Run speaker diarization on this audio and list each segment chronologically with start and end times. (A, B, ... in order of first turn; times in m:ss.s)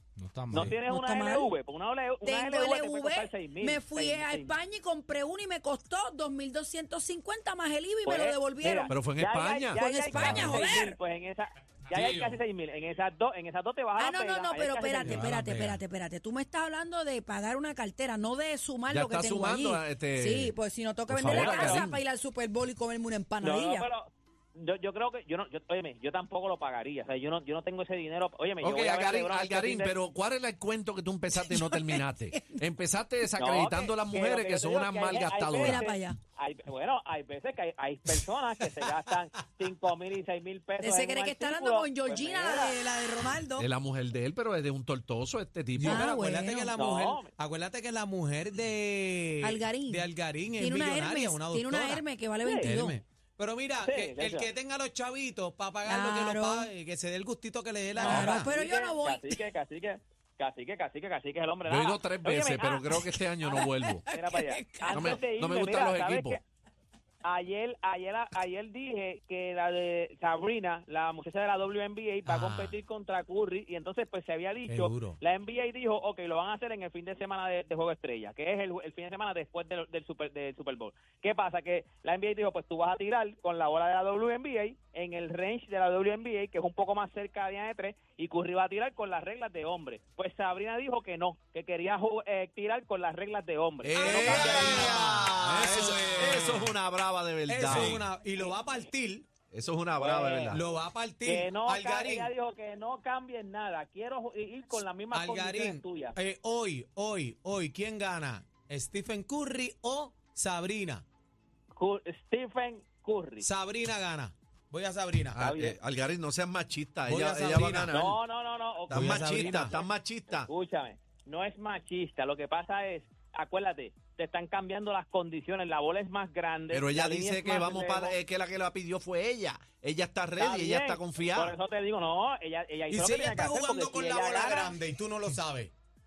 0:00.2-0:00.8 A
0:00.5-0:04.5 B
0:00.9-0:01.5 C
0:02.2-0:08.9 C
0:08.0-0:15.3 B
0:08.9-0:09.8 D
0:09.7-0:11.0 C
0:10.1-0:10.6 A
0:11.9-0:12.4 A
0:14.0-0:23.9 C
0:15.0-0:15.8 A
0:18.9-0:20.5 D
0:21.1-0:22.0 D
0:21.2-0:21.9 B
0:23.4-0:29.9 B
0:28.6-0:35.8 D
0:31.3-0:32.6 C
0:33.4-0:42.7 B
0:35.6-0:36.2 C
0:40.8-0:43.7 C
0:43.6-0:46.1 D
0:45.8-0:52.0 E
0:45.8-0:46.7 C
0:46.7-0:47.3 B
0:49.4-0:50.1 C
0:50.6-0:53.0 C
0:52.4-0:52.7 B
0:52.6-0:58.5 E
0:53.8-0:54.5 B
0:55.8-0:56.7 C
0:58.0-0:59.4 C
0:58.0-1:06.4 B
1:01.6-1:04.0 D
1:03.6-1:05.2 C
1:04.9-1:06.4 D
1:07.2-1:34.9 B
1:12.2-1:12.8 E
1:14.7-1:15.2 E
1:33.8-1:38.0 D
1:34.0-1:35.0 C
1:34.0-1:36.7 E
1:37.5-1:39.3 E
1:39.5-1:40.6 D
1:40.0-1:40.6 B
1:40.5-1:42.3 E
1:41.2-1:46.2 B
1:45.1-1:51.0 E
1:51.7-1:53.5 B
1:53.4-1:55.4 E
1:55.3-1:58.2 D
1:55.4-1:55.8 B
1:57.0-1:57.9 E
1:57.9-1:59.8 B
1:58.9-2:00.5 D
1:58.9-1:59.8 E
2:00.4-2:08.2 B
2:06.7-2:11.5 D
2:10.4-2:14.8 B
2:12.9-2:15.7 E